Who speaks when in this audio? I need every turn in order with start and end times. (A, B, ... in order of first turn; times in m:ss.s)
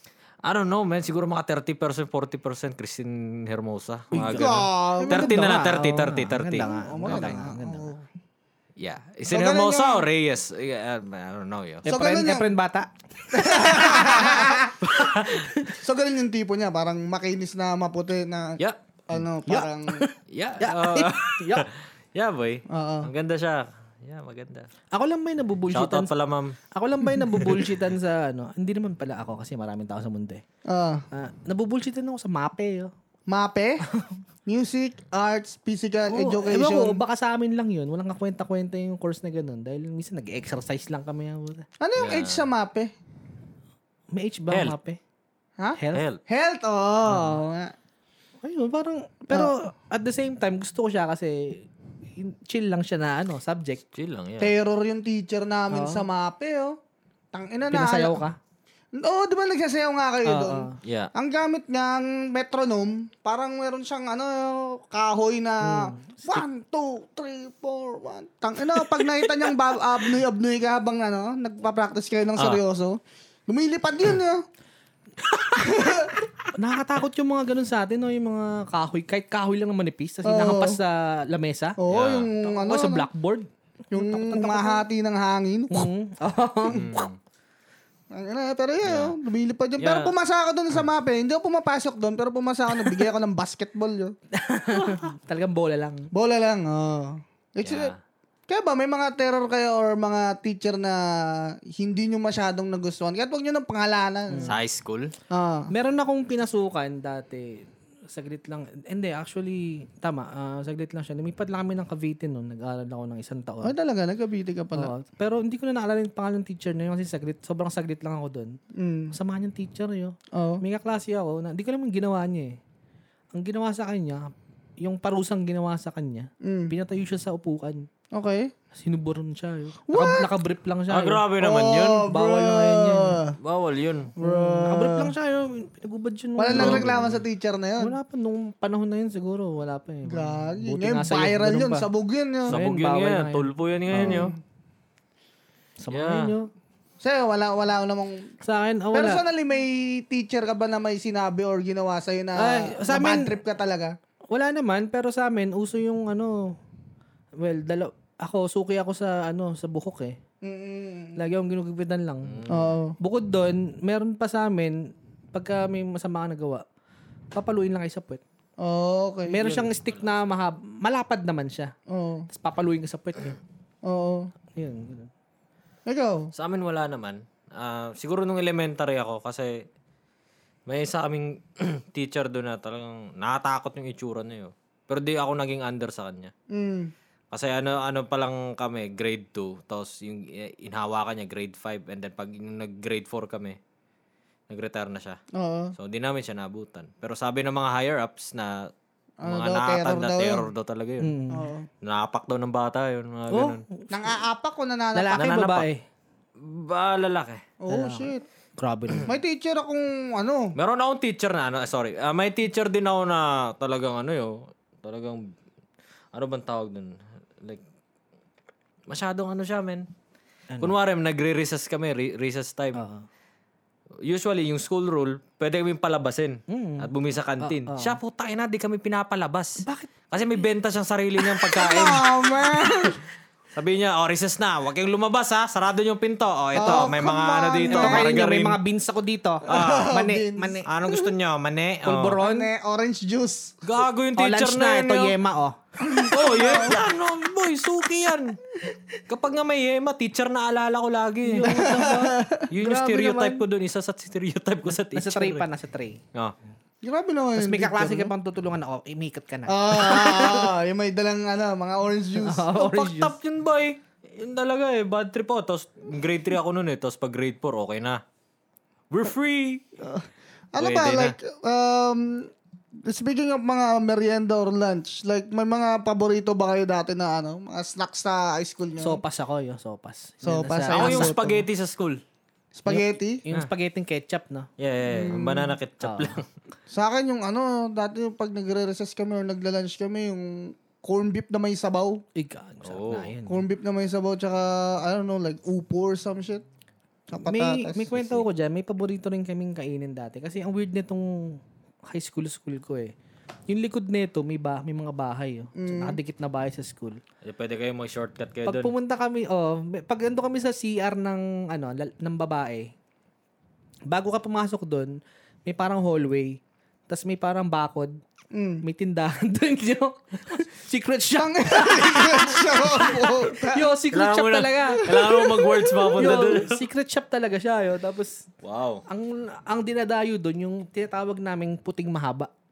0:00.4-0:07.4 A
0:04.1-0:05.4 B
0:04.1-0:07.9 C
0:06.6-0:08.0 B
0:08.8-0:11.9 A
0:09.3-0:10.0 B
0:11.8-0:15.7 C
0:11.9-0:12.5 B
0:13.3-0:14.7 B
0:14.8-0:15.5 A
0:15.7-0:20.0 B
0:19.5-0:21.6 C
0:20.3-0:24.7 A
0:22.7-0:23.1 B
0:24.9-0:26.1 C
0:25.7-0:26.6 A
0:26.7-0:30.4 C
0:27.3-0:27.7 A
0:30.7-0:31.0 B
0:31.1-0:32.9 C
0:33.3-0:33.8 B
0:34.4-0:37.0 B
0:36.1-0:41.6 C
0:41.8-0:42.9 B
0:42.0-0:42.5 A
0:44.1-0:45.0 C
0:44.5-0:44.7 A
0:45.6-0:47.7 B
0:45.8-0:46.0 C
0:45.9-0:46.2 A
0:48.4-0:53.8 C
0:53.9-0:54.5 A
0:54.4-0:56.8 B
0:55.7-0:56.0 C
0:57.3-0:58.2 B
0:57.7-0:58.4 C
0:59.0-1:14.4 B
1:00.2-1:00.8 C
1:00.8-1:01.1 A
1:05.6-1:06.4 C
1:15.3-1:15.6 A
1:15.6-1:16.2 B
1:16.5-1:21.8 C
1:20.2-1:20.8 B
1:21.8-1:23.1 B
1:21.9-1:22.3 A
1:22.4-1:24.8 C
1:23.9-1:25.9 B
1:25.7-1:27.0 C
1:26.7-1:27.2 A
1:28.1-1:34.1 B
1:28.8-1:29.1 A
1:29.8-1:30.1 A
1:34.3-1:36.1 C
1:36.1-1:37.9 B
1:37.6-1:38.0 A
1:38.5-1:44.5 B
1:44.3-1:44.6 C
1:44.5-1:45.1 A
1:45.3-1:45.7 B
1:45.7-1:53.7 C
1:53.6-1:54.9 B
1:54.7-1:58.6 C
1:58.7-1:59.1 B
1:59.1-2:02.6 C
2:00.3-2:00.6 B
2:03.3-2:07.9 C
2:06.4-2:06.7 B
2:08.1-2:08.5 B
2:08.7-2:11.2 C
2:09.9-2:10.3 B
2:10.9-2:12.1 A
2:11.4-2:13.4 B
2:12.1-2:13.2 C
2:13.4-2:14.1 A
2:14.2-2:17.2 C
2:14.2-2:15.1 B
2:16.4-2:18.0 B
2:16.5-2:17.0 A
2:17.8-2:21.9 C
2:20.0-2:22.6 B
2:22.5-2:24.3 C
2:22.5-2:24.3 A
2:23.9-2:24.4 B
2:25.8-2:26.5 C
2:25.9-2:26.3 A
2:27.0-2:28.3 B
2:28.4-2:29.2 C
2:28.9-2:34.0 B
2:32.4-2:33.3 C
2:34.3-2:36.6 C
2:37.4-2:40.2 C
2:40.4-2:41.2 B
2:41.2-2:42.4 C
2:42.3-2:42.8 A
2:42.5-2:43.0 B
2:43.0-2:46.6 C
2:47.3-2:48.2 C
2:48.6-2:49.5 B
2:49.3-2:51.7 C
2:51.9-2:52.3 B
2:52.3-2:53.4 C
2:53.8-2:54.3 B
2:54.6-2:55.1 C
2:55.9-2:56.3 B
2:56.3-2:59.6 A
3:00.7-3:06.3 A
3:06.5-3:06.9 B
3:07.3-3:13.6 A
3:14.5-3:15.2 A
3:15.3-3:15.7 B
3:15.8-3:18.7 A
3:19.2-3:20.5 B
3:19.2-3:21.1 A
3:21.0-3:21.5 C
3:21.3-3:21.7 B
3:21.8-3:23.6 A
3:23.3-3:24.2 C
3:23.9-3:25.3 B
3:25.0-3:25.8 C
3:25.2-3:25.7 A
3:26.4-3:27.4 A
3:27.6-3:28.2 B
3:27.7-3:29.1 C
3:29.0-3:30.5 B
3:30.6-3:35.3 A
3:36.1-3:37.6 A
3:38.9-3:39.9 A
3:40.6-3:42.8 A
3:42.7-3:43.0 C
3:44.0-3:52.9 A
3:46.5-3:48.0 C
3:49.6-3:49.9 C
3:51.5-3:53.0 B
3:53.5-3:58.6 A
3:56.5-3:58.2 B
3:56.6-3:56.9 C
3:57.7-4:00.7 C
3:59.4-4:01.1 B
3:59.5-4:00.0 A
4:00.6-4:02.2 A
4:01.8-4:02.5 C
4:02.2-4:03.6 B
4:03.6-4:05.2 A
4:04.2-4:05.6 C
4:05.8-4:06.8 B
4:06.0-4:08.4 A
4:09.1-4:11.6 A
4:11.2-4:13.4 C
4:11.4-4:12.5 B
4:12.5-4:15.4 A
4:14.9-4:16.0 C
4:16.8-4:18.1 B
4:17.4-4:20.5 C
4:19.5-4:22.5 B
4:22.2-4:23.2 C
4:22.6-4:28.0 A
4:28.9-4:29.6 A
4:29.8-4:32.3 B
4:30.6-4:31.2 A
4:32.8-4:39.0 B
4:38.8-4:41.1 C
4:40.2-4:41.4 B
4:40.7-4:42.0 A
4:42.6-4:43.2 B
4:42.7-4:44.5 C
4:44.6-4:46.3 A
4:44.9-4:45.5 B
4:45.8-4:46.2 C
4:46.7-4:52.0 B
4:52.2-4:53.4 C
4:52.6-4:53.1 A
4:53.3-4:56.4 B
4:57.1-4:58.2 B
4:57.3-5:02.9 C
5:03.5-5:07.0 C
5:05.6-5:06.0 B
5:07.2-5:08.7 A
5:08.4-5:12.7 C
5:13.9-5:18.0 C
5:18.3-5:18.6 B
5:18.6-5:25.0 C
5:21.2-5:23.7 B
5:23.9-5:26.6 A
5:24.8-5:26.3 B
5:26.0-5:28.3 C
5:28.4-5:28.8 A
5:28.9-5:32.3 C